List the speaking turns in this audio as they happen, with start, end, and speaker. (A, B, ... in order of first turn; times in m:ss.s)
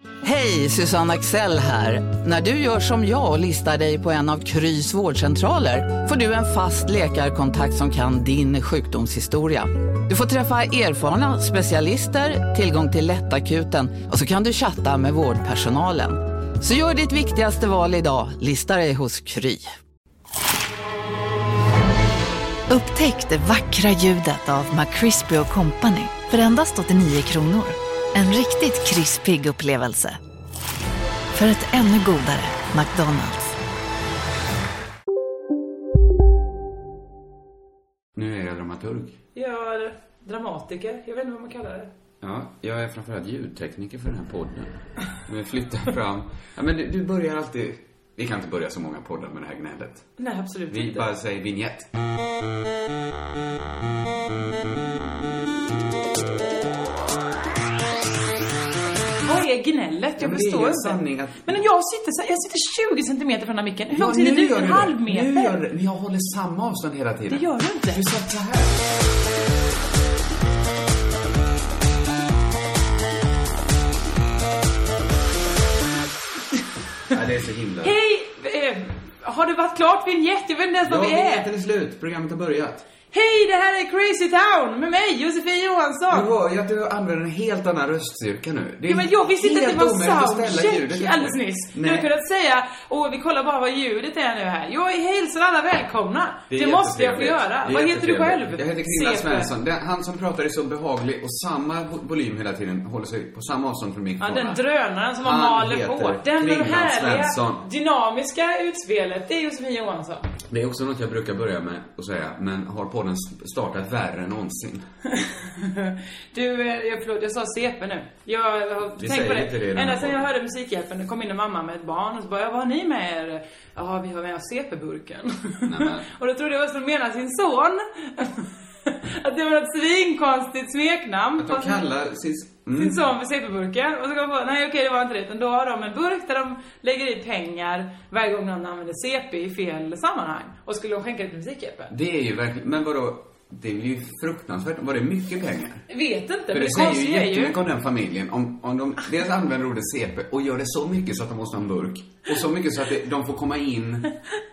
0:00.2-0:19.7 A
0:22.7-0:30.2 B
0:31.3-0:33.6 B
0:38.1-0:39.2 C
0:39.3-0:41.9 D
0:42.2-0:50.2 C
0:50.2-0:51.1 D
0:50.7-0:51.9 C
0:59.2-1:05.6 D
1:00.2-1:01.6 C
1:03.9-1:08.9 C
1:07.3-1:08.0 D
1:17.1-1:18.0 C
1:17.8-1:21.5 D
1:20.8-1:22.8 C
1:23.1-1:26.3 D
1:26.1-1:32.1 C
1:28.9-1:39.5 D
1:36.5-1:44.6 C
1:44.2-1:50.3 D
1:45.2-1:47.6 C
1:50.5-1:54.8 C
1:55.1-2:11.9 D
1:58.9-2:00.2 C
2:05.6-2:06.1 C
2:11.4-2:13.1 C
2:12.8-2:21.9 D
2:21.9-2:25.8 C
2:25.9-2:27.6 D
2:26.5-2:34.1 C